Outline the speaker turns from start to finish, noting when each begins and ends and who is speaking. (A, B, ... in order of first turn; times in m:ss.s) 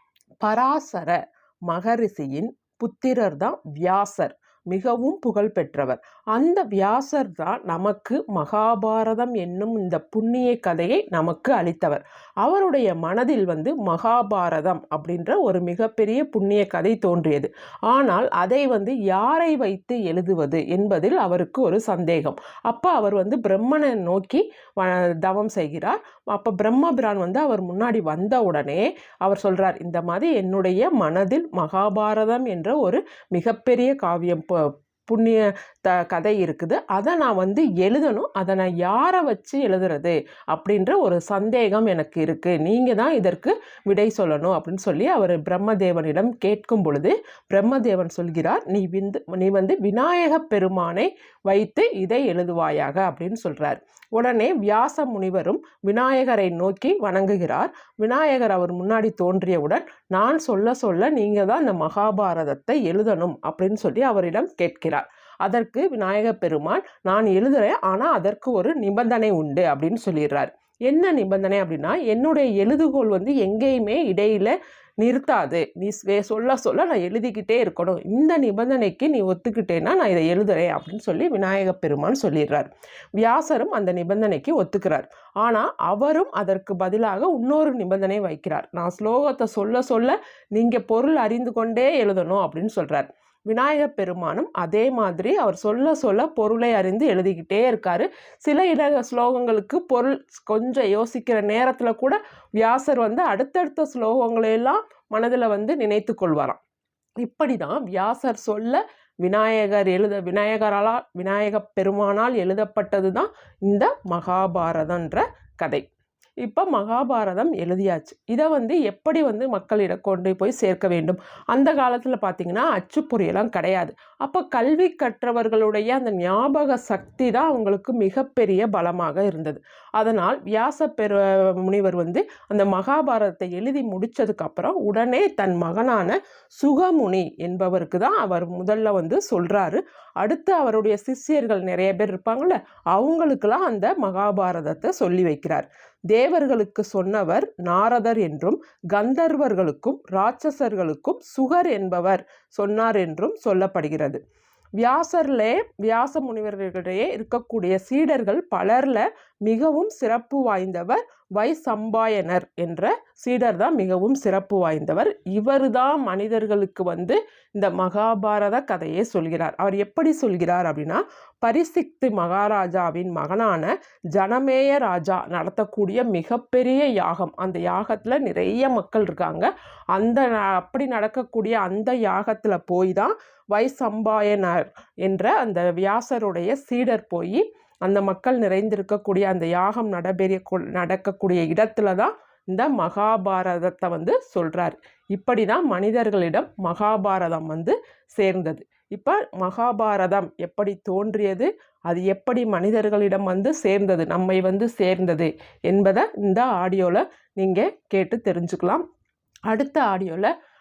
0:00.4-1:46.6 A
1:47.2-1:55.8 A
1:56.4-2:34.2 A
2:34.8-3:28.8 A
3:29.5-3:30.3 A